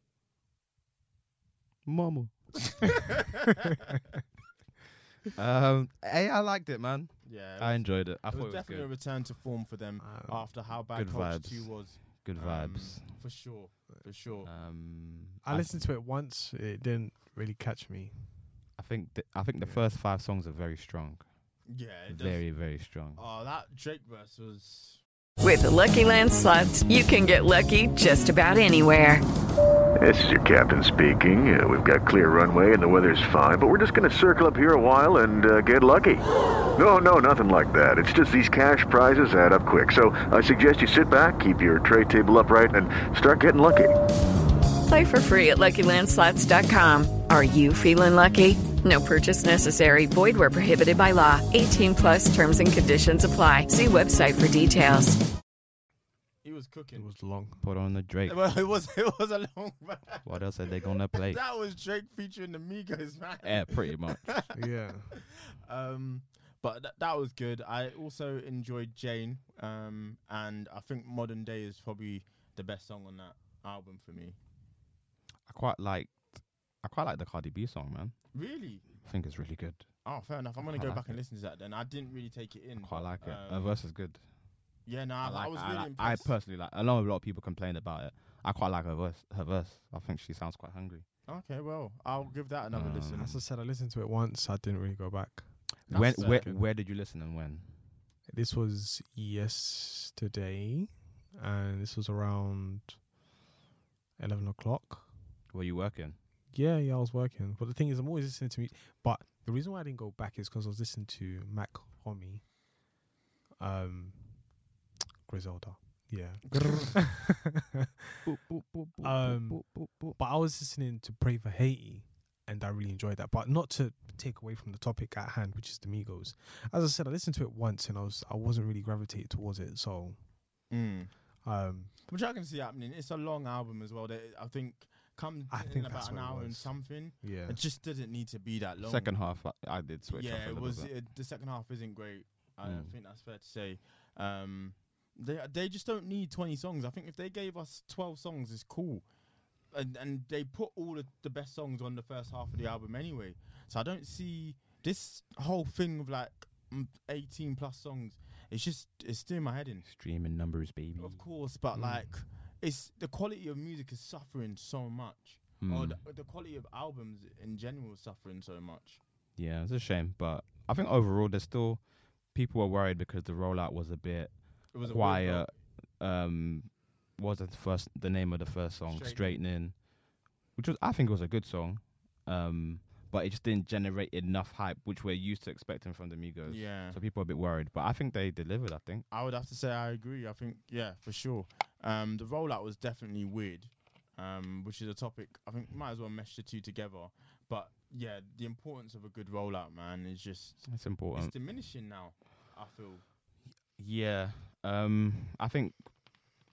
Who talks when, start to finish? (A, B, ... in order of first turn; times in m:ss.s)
0:01.9-0:02.5 A
0:02.7-0:03.3 B
0:05.4-0:08.9 A
0:07.2-0:14.5 B
0:10.0-0:10.5 C
0:10.9-0:13.1 A
0:14.4-0:15.8 A
0:15.4-0:18.3 C
0:18.8-0:21.3 A
0:21.7-0:22.5 B
0:22.1-0:23.2 A
0:23.2-0:25.0 B
0:25.4-0:29.2 D
0:30.0-0:36.2 E
0:36.8-0:44.0 E
0:44.9-0:55.2 D
0:56.4-0:57.1 B
0:57.0-0:57.6 C
0:57.6-0:58.4 A
0:58.3-1:00.3 B
1:00.2-1:01.4 A
1:00.8-1:04.6 B
1:03.4-1:04.4 A
1:04.6-1:05.1 C
1:05.1-1:14.4 B
1:15.5-1:16.3 A
1:16.8-1:18.2 A
1:18.3-1:18.9 B
1:19.0-1:19.9 A
1:20.0-1:23.8 B
1:20.6-1:21.2 A
1:22.8-1:24.2 A
1:24.9-1:26.3 B
1:25.2-1:31.1 A
1:31.3-1:33.4 B
1:32.7-1:33.4 A
1:33.1-1:36.6 C
1:35.9-1:37.8 A
1:35.9-1:36.5 B
1:38.3-1:43.0 C
1:44.2-1:45.1 C
1:45.5-1:46.2 A
1:46.5-1:52.5 C
1:53.6-1:54.6 C
1:55.3-1:57.9 C
1:56.5-1:56.9 B
1:56.5-1:57.3 A
1:58.2-2:00.2 A
1:59.0-2:10.2 C
2:10.7-2:11.1 B
2:11.4-2:11.9 C
2:12.1-2:19.1 B
2:15.5-2:17.6 C
2:18.8-2:20.9 A
2:20.1-2:29.0 B
2:22.6-2:22.9 A
2:29.7-2:39.9 B
2:39.8-2:41.2 A
2:41.0-2:49.0 B
2:45.6-2:46.0 A
2:49.4-2:59.8 A
2:54.7-2:55.5 B
2:58.9-2:59.4 B
3:00.6-3:09.0 A
3:06.5-3:07.0 B
3:09.1-3:23.0 B
3:20.7-3:21.3 A
3:23.8-3:25.8 A